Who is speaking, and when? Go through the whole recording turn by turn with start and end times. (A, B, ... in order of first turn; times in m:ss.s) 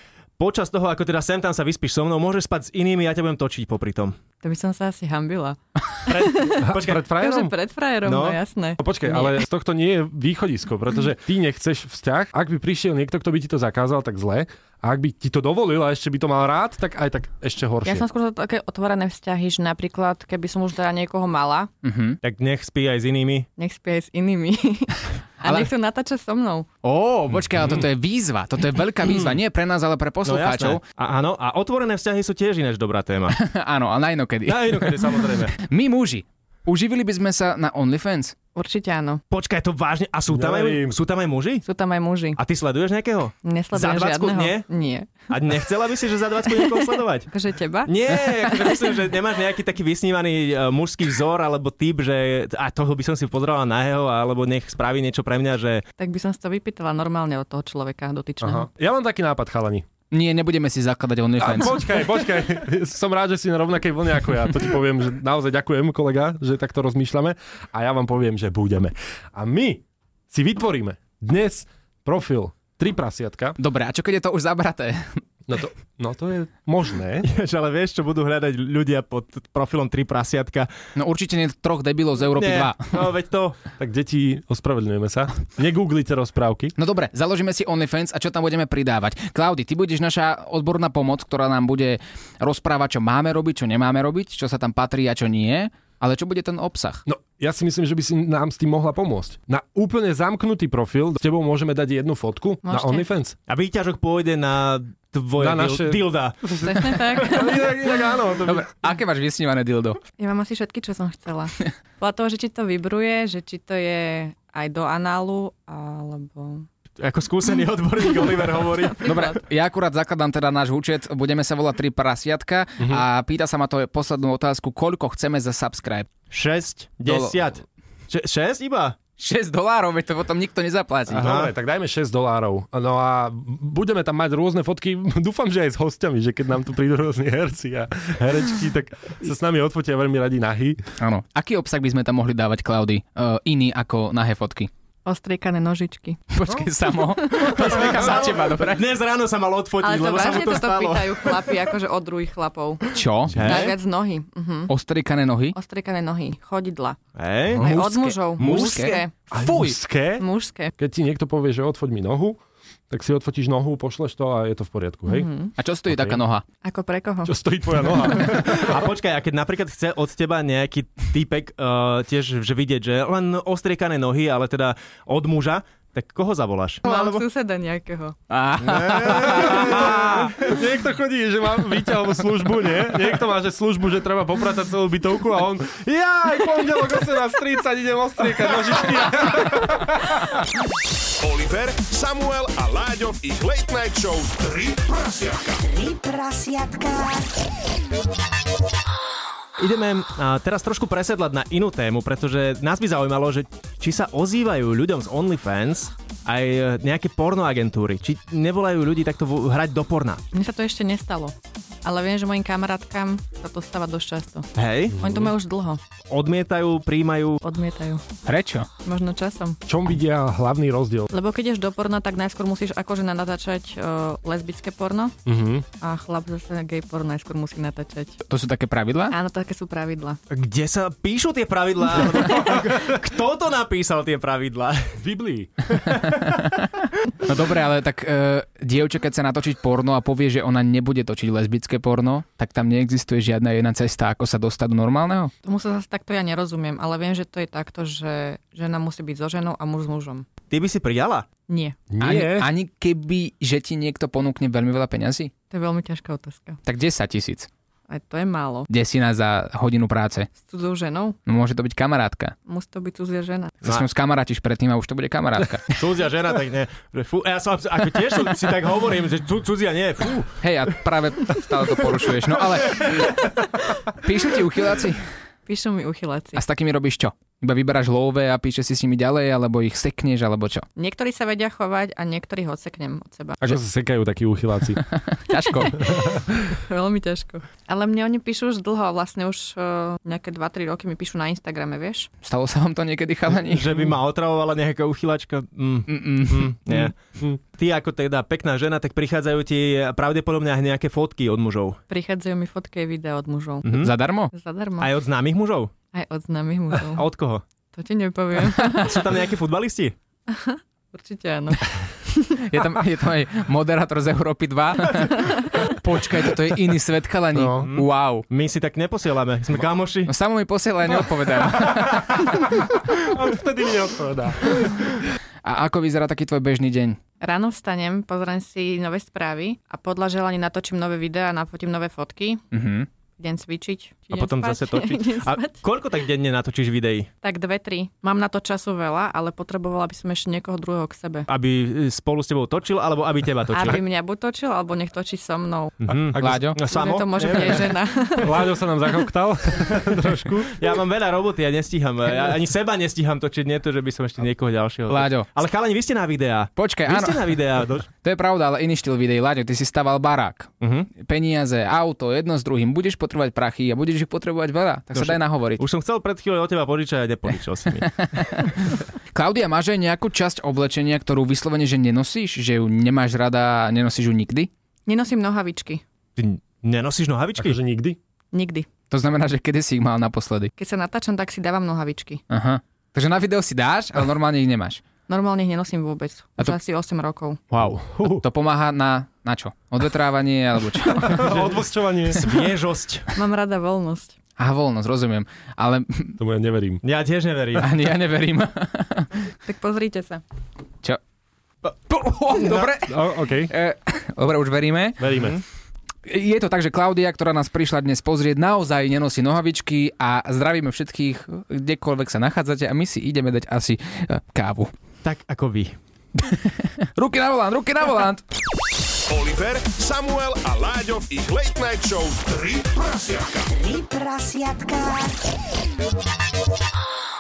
0:00.4-0:04.2 A
0:04.4-0:09.4 B
0:06.1-0:07.1 A
0:06.6-0:07.5 C
0:08.0-0:08.4 A
0:08.8-0:18.1 C
0:17.8-0:21.7 B
0:21.8-0:22.2 D
0:22.2-0:23.5 A
0:23.6-0:26.7 B
0:25.4-0:25.7 D
0:26.8-0:30.8 D
0:29.0-0:29.4 A
0:30.2-0:33.4 A
0:33.3-0:38.4 D
0:34.5-0:35.6 A
0:38.6-0:39.2 B
0:39.3-0:41.6 A
0:40.3-0:41.0 C
0:41.6-0:42.4 B
0:42.4-0:44.7 A
0:43.4-0:45.1 B
0:45.3-0:47.3 A
0:46.7-0:48.5 B
0:47.9-0:55.8 A
0:56.0-0:58.7 B
0:58.4-0:59.9 C
1:00.1-1:01.9 D
1:01.4-1:13.6 C
1:13.6-1:15.2 D
1:15.5-1:17.3 C
1:17.2-1:20.7 A
1:21.0-1:23.1 D
1:22.3-1:23.6 A
1:23.8-1:26.7 C
1:26.8-1:37.0 D
1:37.1-1:43.4 C
1:42.6-1:43.1 B
1:43.5-1:46.5 A
1:45.4-1:48.7 C
1:46.6-1:47.6 B
1:48.5-1:50.0 D
1:50.2-1:56.7 B
1:57.0-1:59.1 A
1:59.0-1:59.4 B
1:59.0-2:06.1 D
2:02.8-2:03.0 C
2:06.3-2:09.0 A
2:07.1-2:07.4 D
2:09.2-2:11.3 D
2:11.1-2:20.8 C
2:11.1-2:11.5 A
2:21.0-2:24.7 D
2:25.0-2:26.4 B
2:26.3-2:28.9 D
2:27.2-2:27.8 B
2:27.4-2:31.6 A
2:29.8-2:34.7 B
2:32.9-2:33.7 D
2:33.3-2:33.7 A
2:34.7-2:35.6 D
2:35.5-2:37.0 B
2:37.2-2:37.7 A
2:37.6-2:39.0 D
2:37.6-2:40.7 B
2:38.4-2:38.9 A
2:39.3-2:40.3 C
2:40.8-2:45.3 C
2:45.1-2:45.5 B
2:45.6-2:46.4 D
2:45.9-2:46.2 C
2:46.6-2:47.4 B
2:47.2-2:48.8 C
2:48.2-2:57.2 A
2:56.8-2:58.2 B
2:58.3-2:59.9 D
2:58.6-3:00.4 A
2:59.2-3:10.4 C
3:11.2-3:15.6 E
3:15.6-3:17.3 F
3:19.6-3:30.2 A
3:30.3-3:35.8 B
3:34.6-3:35.0 A
3:34.9-3:35.3 C
3:36.1-3:37.4 A
3:37.4-3:38.0 B
3:38.2-3:38.7 D
3:38.8-3:39.6 B
3:39.7-3:41.1 C
3:41.1-3:45.2 B
3:45.2-3:45.7 C
3:45.8-3:48.2 B
3:48.3-3:49.2 D
3:49.1-3:50.2 B
3:50.3-3:55.0 A
3:55.0-3:55.5 C
3:55.7-3:56.4 A
3:56.0-3:56.7 D
3:57.2-4:05.3 D
4:05.4-4:10.2 B
4:10.5-4:11.3 A
4:11.5-4:11.8 B
4:11.9-4:12.5 C
4:12.0-4:15.3 D
4:15.5-4:16.6 B
4:16.6-4:17.5 D
4:17.9-4:18.7 B
4:18.7-4:20.3 D
4:20.4-4:21.2 B
4:21.3-4:22.4 D
4:22.5-4:23.6 B
4:23.6-4:25.8 D
4:25.7-4:30.3 A
4:30.4-4:35.1 D
4:35.5-4:36.4 B
4:36.4-4:40.7 D
4:40.8-4:43.4 B
4:43.4-4:44.8 C
4:44.9-4:46.1 D
4:45.5-4:46.0 B
4:46.5-4:52.1 B
4:52.2-4:53.9 D
4:53.3-4:57.0 A
4:55.9-4:56.9 D
4:57.5-5:01.8 A
5:01.9-5:03.7 B
5:03.6-5:03.9 A
5:03.8-5:04.3 D
5:04.3-5:04.9 B
5:04.8-5:05.7 A
5:05.9-5:07.1 B
5:06.9-5:07.4 A
5:07.7-5:09.0 B
5:08.7-5:10.0 A
5:10.3-5:12.4 B
5:12.3-5:18.3 D
5:15.1-5:15.7 B
5:17.3-5:17.7 C
5:17.6-5:20.1 A
5:20.1-5:22.4 D
5:21.6-5:22.0 C
5:22.9-5:24.8 C
5:25.4-5:27.0 D
5:27.2-5:32.4 B
5:32.5-5:32.9 D
5:33.2-5:35.6 B
5:34.1-5:37.1 A
5:37.2-5:41.3 B
5:41.3-5:43.8 A
5:43.5-5:45.8 B
5:45.8-5:47.7 A
5:46.1-5:46.5 C
5:46.2-5:46.6 D
5:46.7-5:48.6 B
5:48.2-5:50.6 C
5:49.7-5:57.9 A
5:54.9-5:55.3 D
5:56.6-5:57.4 D
5:57.9-6:05.6 D
6:00.6-6:00.9 A
6:04.9-6:08.3 A
6:07.8-6:14.5 D
6:14.9-6:15.8 B
6:16.2-6:17.6 A
6:17.4-6:18.0 C
6:18.3-6:18.7 B
6:18.9-6:20.5 D
6:20.6-6:22.2 B
6:22.3-6:24.8 D
6:25.1-6:27.4 B
6:27.5-6:31.4 D
6:27.6-6:28.2 C
6:31.0-6:32.2 C
6:32.1-6:33.1 A
6:33.1-6:34.2 B
6:34.4-6:36.2 D
6:36.2-6:36.8 C
6:36.8-6:37.7 A
6:37.6-6:39.1 D
6:39.4-6:40.2 B
6:41.6-6:45.0 D
6:42.4-6:42.7 A
6:42.8-6:43.5 C
6:45.0-6:45.4 C
6:46.0-6:54.7 D
6:55.0-6:55.8 A
6:56.2-6:58.2 D
6:59.1-7:03.5 E
7:03.5-7:05.2 F